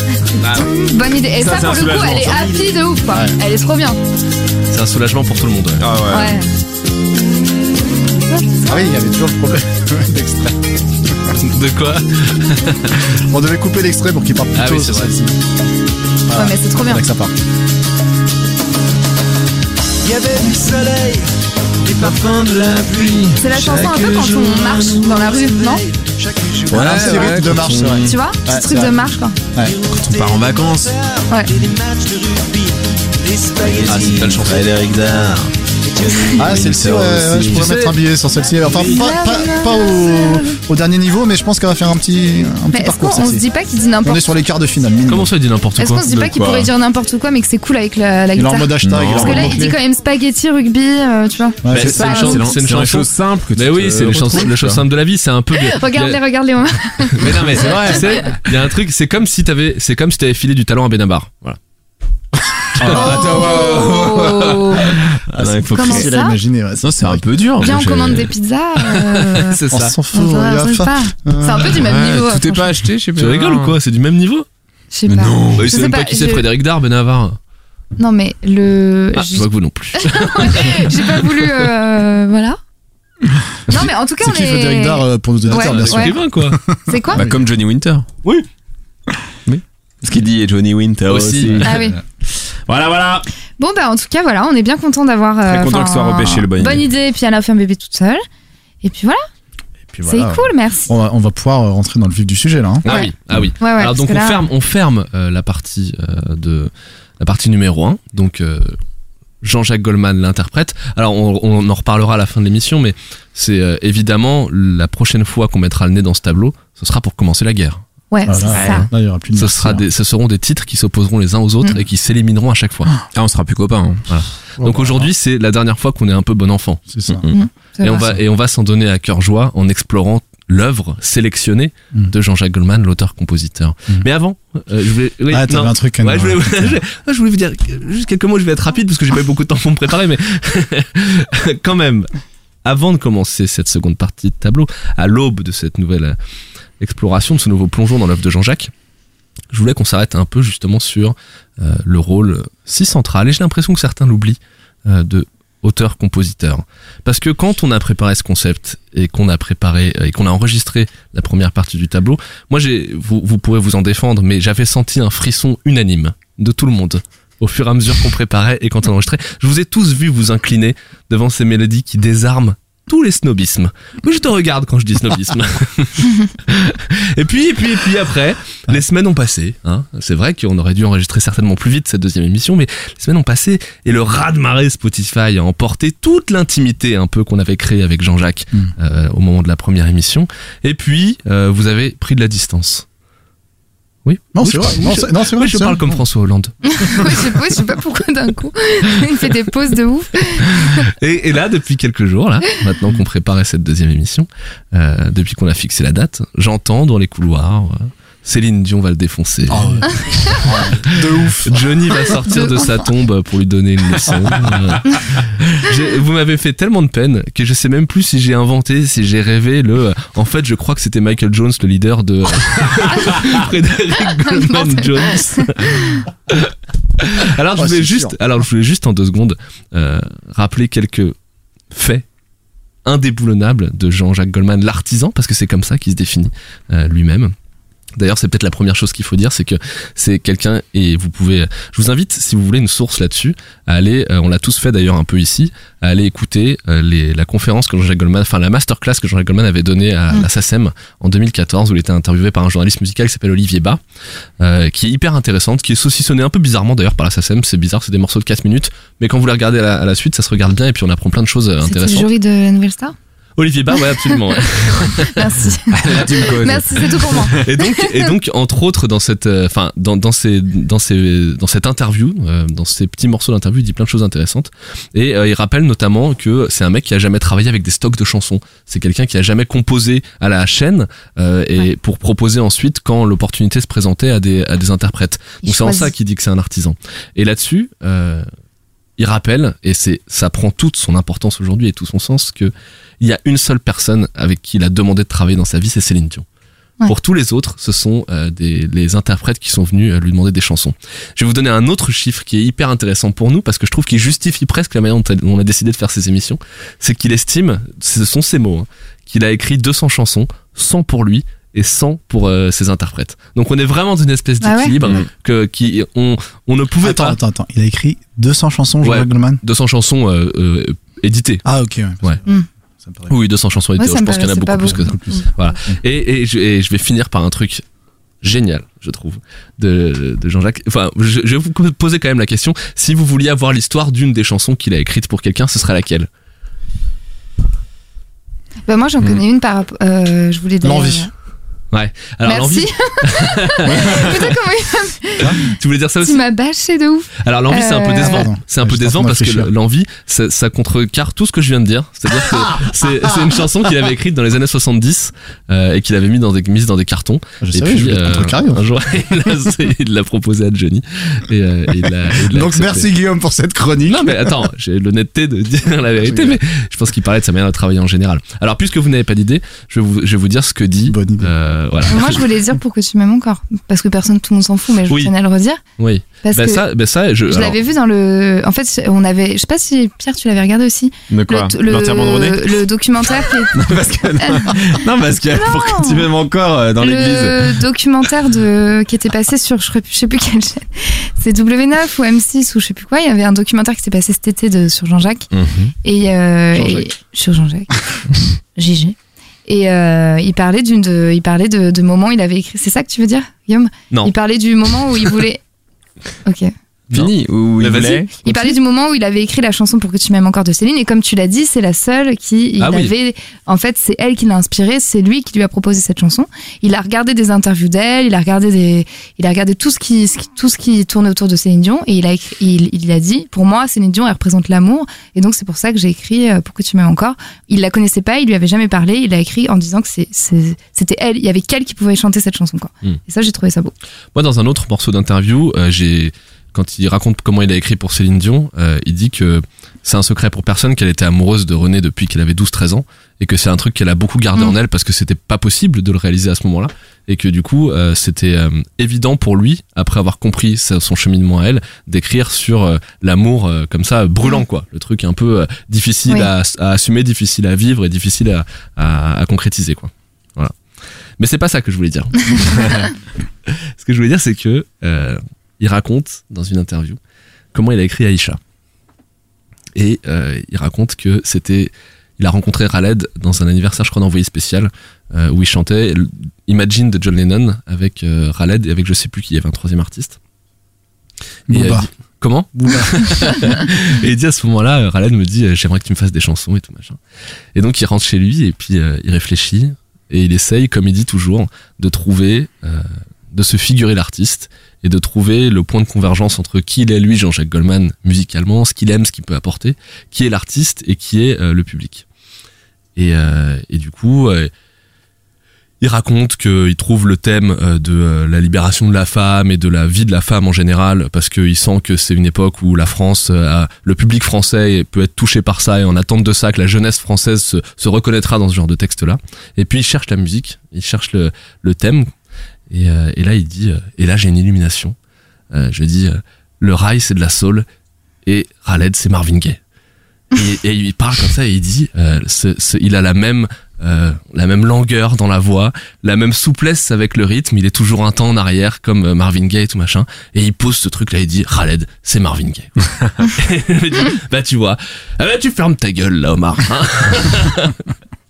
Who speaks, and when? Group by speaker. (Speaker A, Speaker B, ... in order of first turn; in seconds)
Speaker A: 0.4-4.0, 6.1-6.5, 8.3-8.7, 16.3-17.1, 23.4-25.9, 28.0-29.4, 38.7-40.6, 42.7-44.3, 45.8-52.5, 55.5-58.2, 62.9-65.0, 65.7-66.4, 67.6-69.6, 70.1-72.7, 74.9-76.4, 78.0-82.6, 83.7-86.2, 86.8-87.3, 91.6-92.0, 93.6-98.2, 98.8-99.2, 100.0-100.9, 102.8-104.4, 118.1-118.9, 127.3-128.1, 196.6-200.8, 224.2-226.0, 261.6-262.9, 263.8-268.1, 285.4-285.9, 314.4-314.7, 323.8-325.3, 338.7-341.1, 342.2-348.3, 371.9-375.6, 376.2-376.6, 377.3-383.6, 384.2-384.6, 385.4-386.1, 386.8-395.3, 395.8-397.8, 398.5-405.4, 406.2-406.5, 408.2-433.7
Speaker B: 1.4-2.6, 5.8-6.4, 21.9-24.3, 26.7-28.1, 29.9-30.9, 33.6-35.5, 36.0-37.7, 46.1-46.7, 48.8-49.6, 51.7-54.8, 57.2-58.3, 62.8-66.1, 66.8-68.3, 71.7-73.8, 75.1-75.7, 87.1-88.1, 89.5-91.9, 92.5-93.3, 95.4-96.8, 118.5-118.8, 123.1-124.0, 127.1-127.3, 265.7-267.5, 343.6-344.1, 381.1-382.5, 383.5-387.6, 395.3-395.7, 406.9-408.5
Speaker C: 3.1-3.4, 8.7-11.3, 13.2-15.4, 16.3-17.3, 26.7-29.0, 36.4-43.4, 44.0-45.3, 48.3-49.8, 51.6-52.1, 62.8-63.8, 65.3-67.2, 69.7-71.8, 83.7-87.4, 99.9-102.8, 118.2-119.8, 124.6-125.1, 126.9-127.3, 135.3-136.8, 194.3-196.0, 209.5-212.1, 227.6-228.2, 316.8-319.4, 321.4-322.2, 322.8-323.1, 324.6-325.8, 340.6-341.1, 348.1-349.5, 352.2-353.3, 357.4-358.6, 362.2-364.4, 366.1-366.4, 370.9-371.3, 481.5-481.9, 482.5-483.5
Speaker D: 4.7-5.9, 11.4-13.2, 14.5-15.1, 33.9-34.7, 37.5-38.0, 45.1-46.2, 51.7-56.2, 57.1-61.6, 62.8-63.3, 69.3-69.9, 73.2-74.5, 75.5-77.4, 79.1-81.5, 85.5-86.6, 91.0-91.8, 102.8-108.8, 109.4-117.8, 119.3-122.9, 124.1-126.8, 127.8-142.1, 142.6-146.2, 146.8-148.7, 149.5-192.8, 194.0-197.2, 200.4-225.7, 226.3-231.1, 231.7-232.0, 232.8-237.3, 238.0-253.8, 254.4-262.1, 263.4-265.4, 267.3-288.2, 289.0-296.2, 296.9-317.2, 318.8-321.4, 323.1-327.6, 328.2-336.1, 341.7-344.3, 345.4-346.2, 347.2-362.9, 363.9-372.2, 375.8-377.6, 396.6-396.9, 406.9-408.1, 412.6-412.9, 434.1-460.5, 461.2-462.9, 463.5-467.0, 467.5-468.4, 469.7-480.2, 481.5-487.0, 487.5-502.0, 502.9-504.5, 505.8-522.1, 522.7-524.9, 525.5-527.6, 528.2-529.6, 530.3-547.8
Speaker E: 20.0-21.3, 21.8-23.4, 24.0-27.1, 29.7-30.4, 30.9-34.3, 35.9-36.3